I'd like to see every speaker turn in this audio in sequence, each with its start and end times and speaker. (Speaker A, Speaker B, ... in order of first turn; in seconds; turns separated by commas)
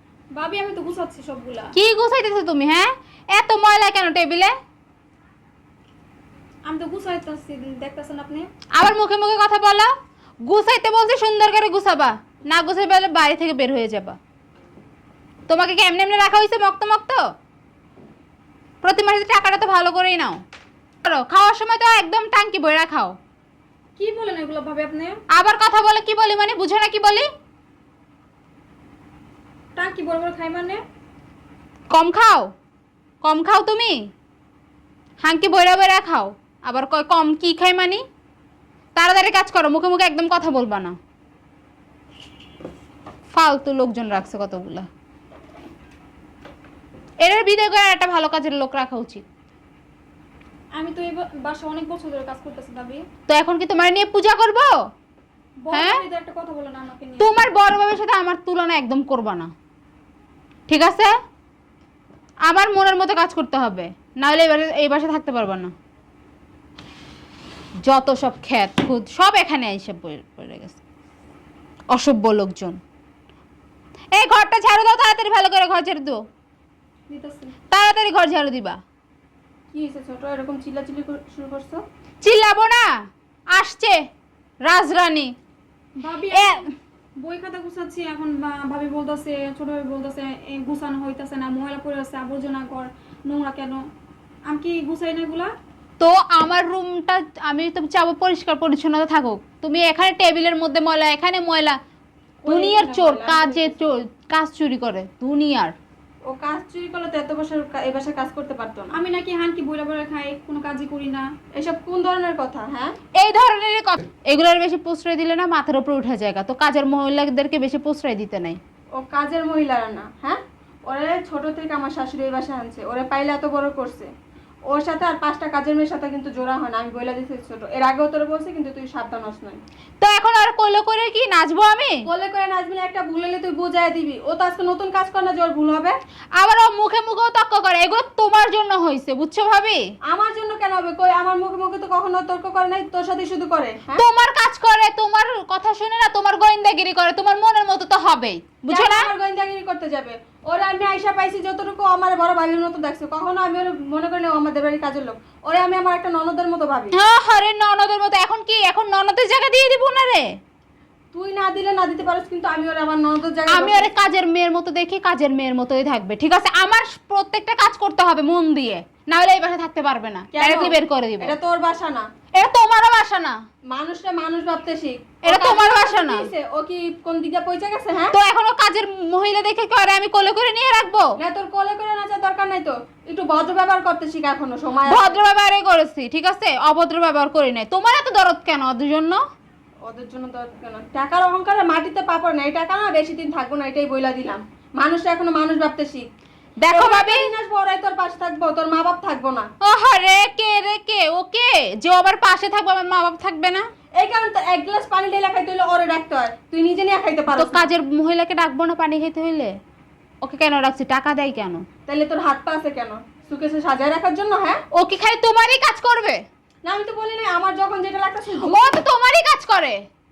Speaker A: 0.3-1.7, Speaker B: 1.8-4.5, Speaker A: 6.7-8.5, Speaker B: 8.8-9.9, Speaker B: 10.5-14.2, Speaker B: 15.5-17.2, Speaker B: 18.8-20.4, Speaker B: 21.0-23.2, Speaker A: 24.0-25.2, Speaker B: 25.3-27.3, Speaker A: 29.8-30.8, Speaker B: 31.9-32.5, Speaker B: 33.2-34.0, Speaker B: 35.2-38.0, Speaker B: 39.0-41.0, Speaker B: 43.3-44.9, Speaker B: 47.2-49.2, Speaker A: 50.8-53.0, Speaker B: 53.3-54.7, Speaker A: 55.6-57.3, Speaker B: 55.7-56.0, Speaker B: 57.2-59.5, Speaker B: 60.7-61.1, Speaker B: 62.5-65.7, Speaker B: 67.8-70.8, Speaker B: 71.9-72.8, Speaker B: 74.2-76.2, Speaker A: 77.1-77.5, Speaker B: 77.7-78.8, Speaker C: 79.7-81.8, Speaker B: 82.2-82.9, Speaker B: 83.5-84.0, Speaker B: 84.7-85.3, Speaker A: 86.0-86.6, Speaker B: 86.3-86.7, Speaker A: 87.2-93.8, Speaker A: 94.5-95.5, Speaker B: 96.0-101.8, Speaker C: 102.4-103.8, Speaker B: 102.5-105.7, Speaker C: 106.3-109.0, Speaker A: 108.9-111.3, Speaker C: 111.6-113.0, Speaker B: 113.2-118.6, Speaker C: 119.0-124.1, Speaker C: 124.7-129.6, Speaker B: 130.0-132.1, Speaker C: 132.1-136.0, Speaker B: 136.4-139.8, Speaker C: 140.1-144.0, Speaker B: 144.0-149.1, Speaker C: 148.7-156.9, Speaker B: 156.9-160.3, Speaker C: 161.1-163.9, Speaker B: 163.5-171.3, Speaker C: 170.3-172.1, Speaker B: 172.4-173.4, Speaker C: 173.7-178.1, Speaker B: 175.2-176.3, Speaker B: 178.1-181.1, Speaker C: 181.2-185.2, Speaker B: 184.9-189.2, Speaker C: 189.9-196.1, Speaker B: 196.6-197.3, Speaker C: 196.7-199.5, Speaker B: 199.6-203.7, Speaker C: 204.0-207.7, Speaker B: 207.3-209.5, Speaker B: 210.2-211.7, Speaker C: 211.9-214.6, Speaker B: 214.7-216.2, Speaker C: 216.7-218.7, Speaker B: 218.4-219.8